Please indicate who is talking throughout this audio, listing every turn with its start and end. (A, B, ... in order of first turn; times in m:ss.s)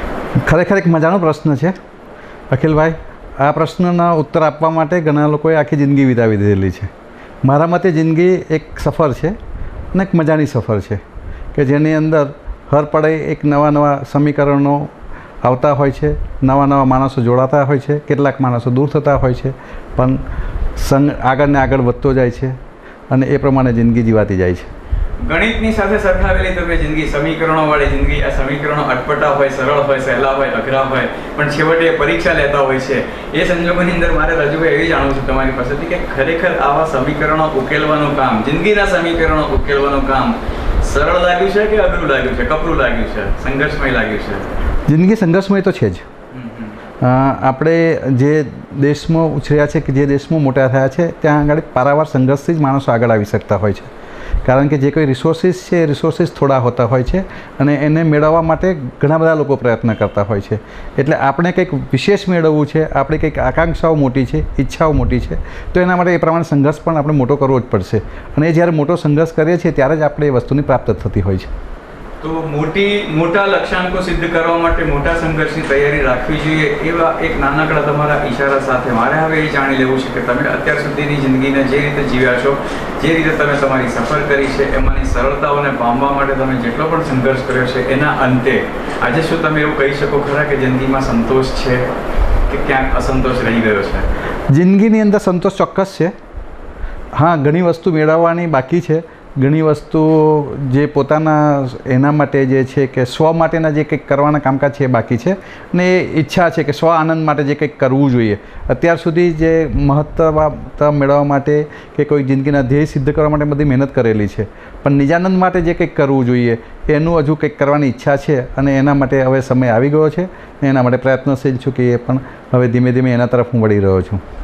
0:00.4-0:01.8 A
0:02.5-0:06.9 A
0:07.4-0:09.4 A
0:09.9-0:11.0 A
0:11.5-0:14.9 A
0:15.4-0:20.2 A
0:20.8-0:22.6 A
0:23.1-0:24.7 A
0:25.2-0:44.5 B
0:44.9-0:46.0 A
0:46.3-0:46.8 B
0:47.0-0:53.9 A
0:54.4-1:11.5 A
1:12.2-1:31.9 B
1:32.5-1:34.1 B
1:34.5-1:36.1 A
1:37.2-2:04.2 A